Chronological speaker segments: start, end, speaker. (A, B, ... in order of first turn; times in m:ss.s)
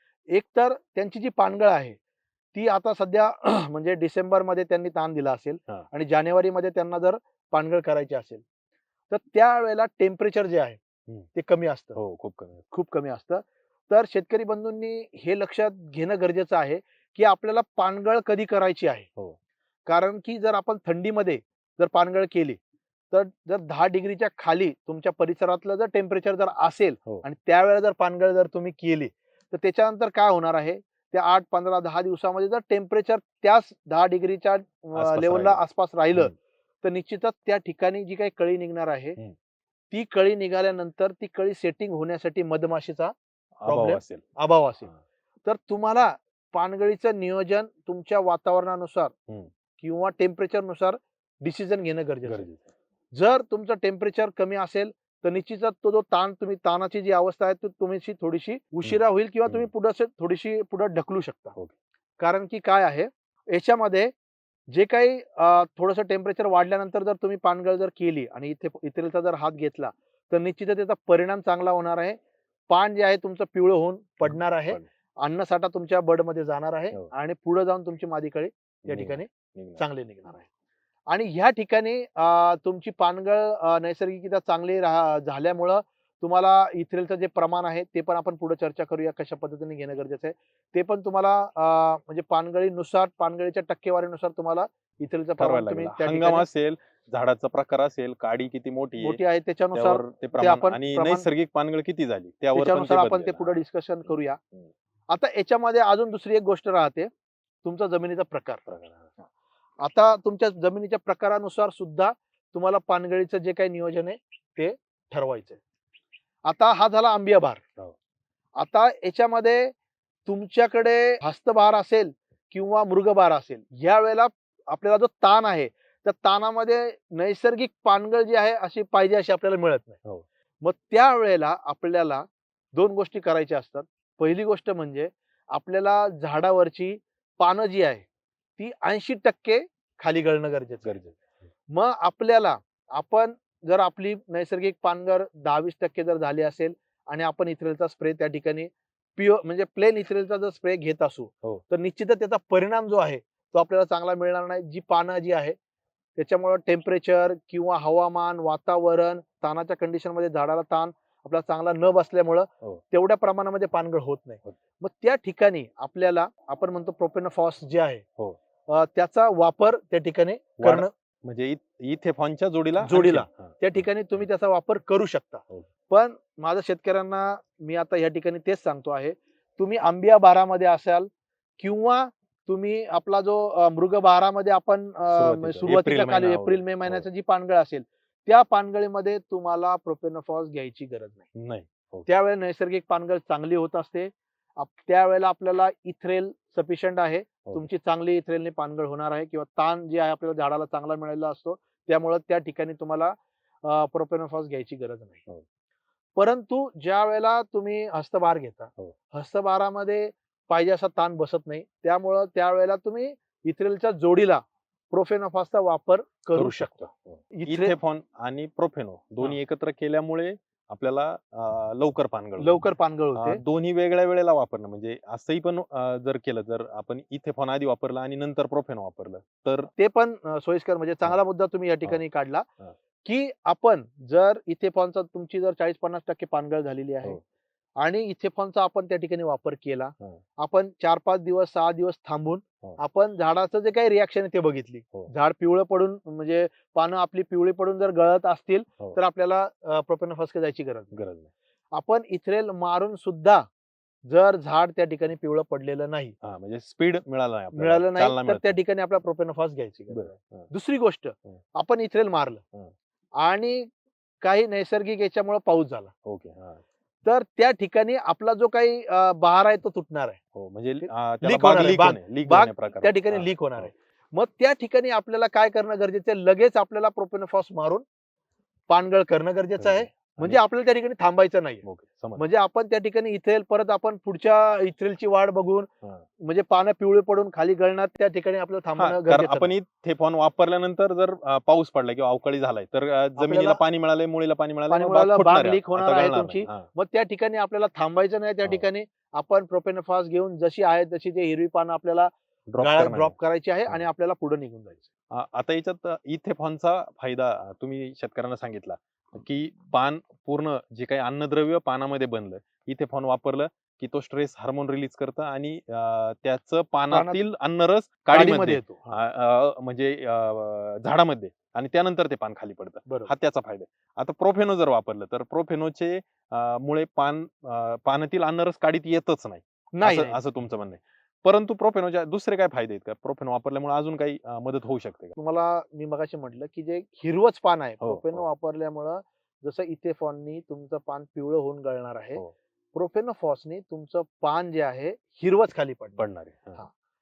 0:00.3-0:02.0 A
0:02.5-0:08.4 A
0:09.1-0:10.8 A
0:11.4-0:12.0 A
0:12.0-0:12.6 B
0:12.7-0:19.1 A
0:19.9-0:22.6 A
0:23.1-0:39.2 A
0:35.0-0:35.6 B
0:39.9-0:43.2 A
0:43.6-0:44.2 B
0:43.7-0:44.9 A
0:45.4-0:49.1 A
0:49.8-0:52.5 A
0:52.2-0:52.6 B
0:53.1-1:01.6 A
0:58.8-0:59.7 B
1:02.2-1:04.1 A
1:04.7-1:20.5 A
1:14.2-1:14.9 B
1:18.9-1:19.8 B
1:21.1-1:36.5 A
1:35.4-1:39.2 B
1:39.0-1:41.3 A
1:39.7-1:44.7 B
1:42.6-1:44.4 A
1:45.1-1:47.1 A
1:47.6-1:48.7 A
1:48.7-1:49.1 B
1:49.8-1:55.6 A
1:56.4-1:57.6 A
1:58.6-1:59.7 A
2:00.3-2:10.0 A
2:10.6-2:18.0 A
2:18.6-2:21.0 A
2:20.8-2:21.2 B
2:21.7-2:35.6 A
2:36.2-2:48.0 A
2:48.7-2:50.9 A
2:50.6-2:54.3 B
2:52.8-3:11.3 A
3:05.1-3:07.1 B
3:11.4-3:12.1 B
3:12.1-3:25.3 A
3:26.2-3:36.8 A
3:36.3-3:49.7 B
3:37.3-3:37.8 A
3:42.4-3:43.4 A
3:49.8-3:52.5 A
3:53.0-3:57.2 A
3:57.8-4:11.0 A
4:10.9-4:11.3 B
4:11.7-4:13.4 A
4:14.1-4:16.2 A
4:16.2-4:18.6 B
4:17.6-4:22.4 A
4:19.9-4:20.5 B
4:23.2-4:23.7 A
4:24.2-4:25.9 A
4:26.0-4:26.6 B
4:27.0-4:30.2 A
4:30.3-4:33.7 B
4:30.8-4:37.8 A
4:38.7-4:41.6 A
4:39.6-4:40.4 B
4:41.6-4:42.3 B
4:42.2-4:45.7 A
4:46.2-4:49.5 A
4:48.8-4:56.7 B
4:53.2-4:53.6 A
4:54.7-5:04.9 A
5:02.5-5:03.2 B
5:05.1-5:35.1 B
5:16.9-5:17.2 A
5:18.1-5:18.9 A
5:22.9-5:23.1 A
5:29.7-5:30.2 A
5:35.2-5:42.2 A
5:37.8-5:38.2 B
5:42.7-5:46.7 A
5:46.0-5:46.6 B